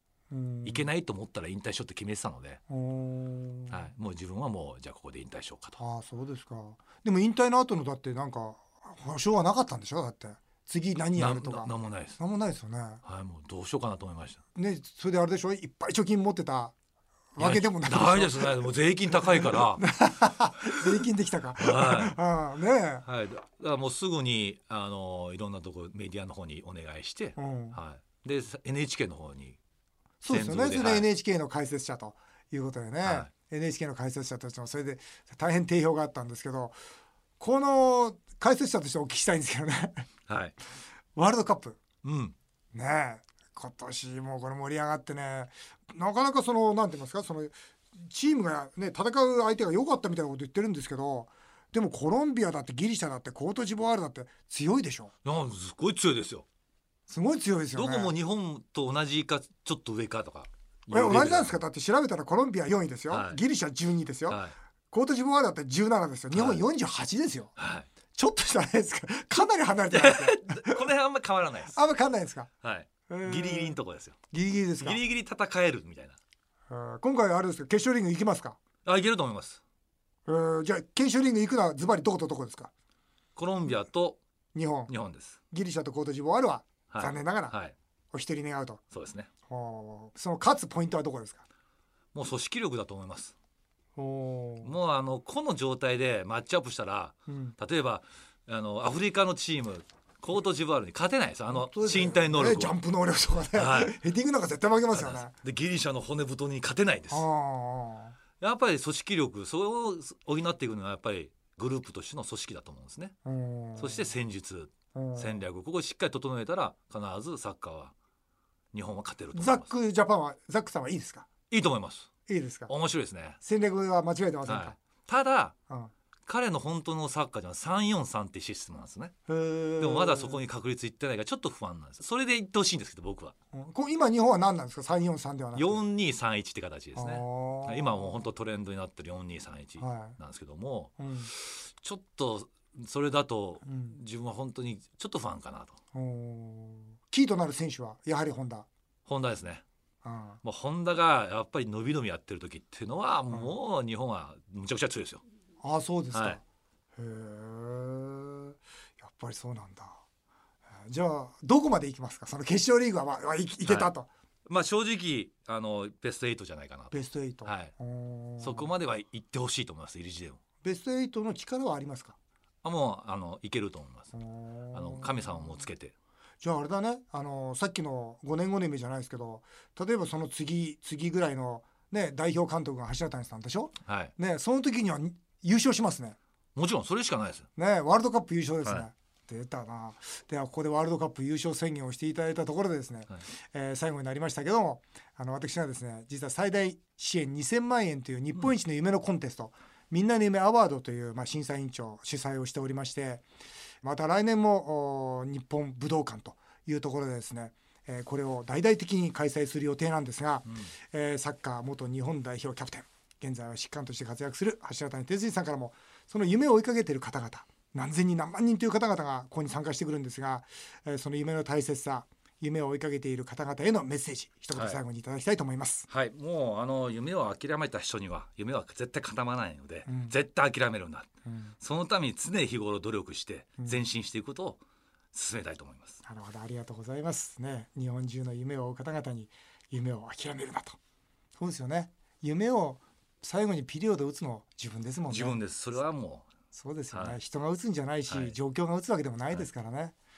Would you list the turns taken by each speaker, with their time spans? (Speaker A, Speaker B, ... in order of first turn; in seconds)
Speaker A: 0.3-0.9, 2.7-3.9, 5.8-13.0, 14.5-16.7, 17.3-23.0, 27.4-27.8, 30.2-36.8, 37.4-40.1, 41.1-41.8, 42.7-55.1, 57.1-58.1, 60.9-67.5, 68.1-70.8, 71.7-72.5, 73.1-73.8, 74.3-75.0, 76.7-78.6, 80.2-82.7, 84.5-84.9, 85.5-87.5, 88.1-88.8, 89.5-91.4, 94.0-94.7, 97.3-97.5, 101.5-105.3, 107.1-108.2, 113.2-114.1, 114.9-115.4, 119.3-121.3, 122.3-122.7, 123.4-124.8, 129.3-130.4, 133.5-135.8, 136.9-138.3, 139.8-140.2, 141.0-141.3, 143.6-144.0, 145.9-148.7, 150.0-150.4, 155.6-156.4, 157.0-160.0, 160.8-164.1, 166.9-168.7, 170.6-172.2, 174.1-175.6, 176.4-186.2, 187.6-203.2, 203.8-225.9, 229.9-230.1, 231.2-231.5, 236.0-240.8, 241.4-245.4, 246.5-250.0
Speaker B: 0.6-2.6, 3.7-5.8, 11.2-12.2, 13.0-14.4, 17.4-19.9, 21.6-22.2, 23.0-29.6, 30.3-31.1, 33.0-33.3, 40.3-40.5, 42.0-42.3, 55.2-56.4, 57.7-61.6, 63.1-63.4, 64.3-64.5, 66.3-66.6, 67.6-67.9, 69.9-71.8, 72.6-74.2, 74.8-76.2, 78.8-79.6, 83.3-84.2, 84.9-85.4, 86.9-87.7, 88.9-89.3, 92.1-93.3, 94.6-102.8, 103.5-104.0, 104.9-107.3, 108.4-113.1, 113.8-117.9, 118.7-119.7, 121.5-122.1, 122.7-123.4, 124.5-125.5, 126.2-129.1, 129.8-133.3, 135.5-145.8, 149.1-149.6, 150.4-155.2, 156.1-156.4, 163.6-163.9, 164.5-167.7, 168.4-170.4, 172.6-174.1, 174.7-175.9, 183.8-184.1, 186.6-187.5, 224.5-224.8, 225.9-231.1, 231.6-234.6, 235.1-236.0, 245.1-246.3, 246.9-247.2, 248.1-248.4